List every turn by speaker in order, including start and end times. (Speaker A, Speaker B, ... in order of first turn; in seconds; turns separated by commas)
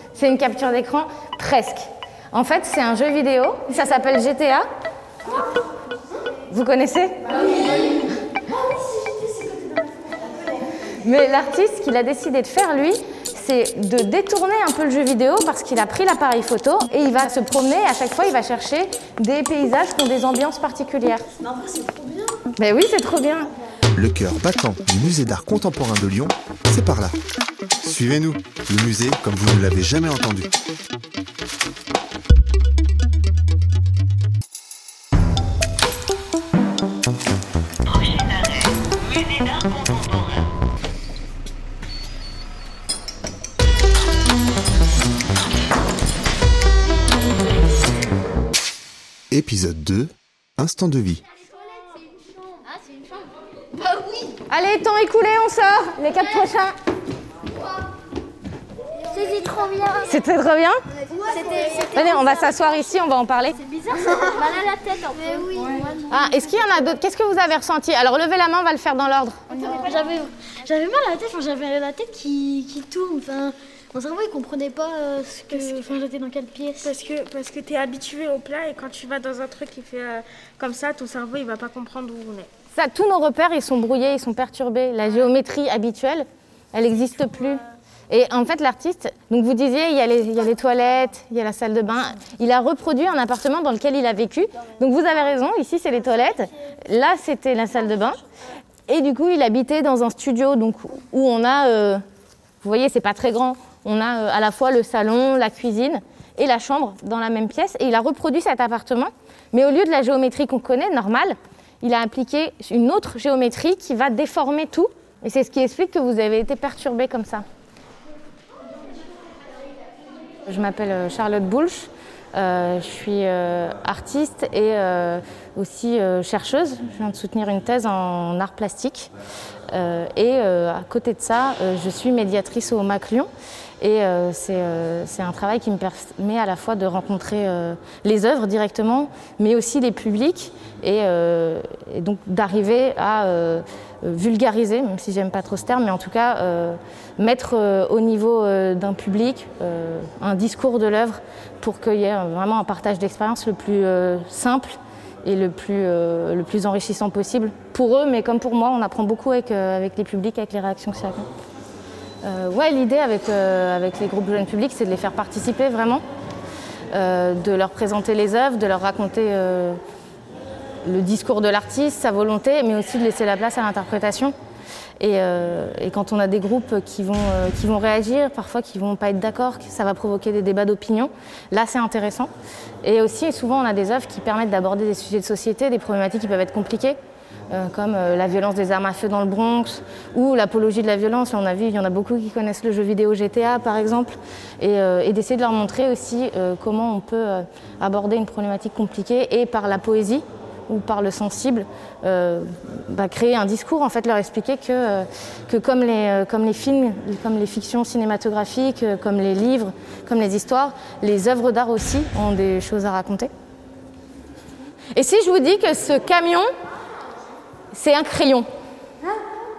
Speaker A: 0.1-4.7, Speaker A: 6.5-7.5, Speaker A: 11.0-21.2, Speaker A: 22.6-23.5, Speaker B: 23.9-27.2, Speaker B: 27.8-30.5, Speaker B: 49.3-51.2, Speaker A: 54.5-56.7, Speaker C: 59.1-60.1, Speaker A: 60.0-60.8, Speaker C: 61.1-62.5, Speaker A: 61.7-63.6, Speaker C: 63.8-66.1, Speaker A: 66.1-69.4, Speaker D: 69.8-76.8, Speaker E: 76.8-82.5, Speaker A: 82.7-87.6, Speaker A: 88.1-98.2, Speaker A: 98.9-102.0, Speaker A: 102.6-117.5, Speaker A: 120.5-129.1, Speaker A: 129.7-133.3, Speaker A: 133.8-161.3, Speaker A: 162.2-166.0, Speaker A: 166.9-169.8, Speaker A: 170.8-174.3, Speaker A: 175.0-182.3, Speaker A: 182.8-187.0, Speaker A: 187.5-213.3, Speaker A: 214.9-216.5, Speaker A: 217.7-218.5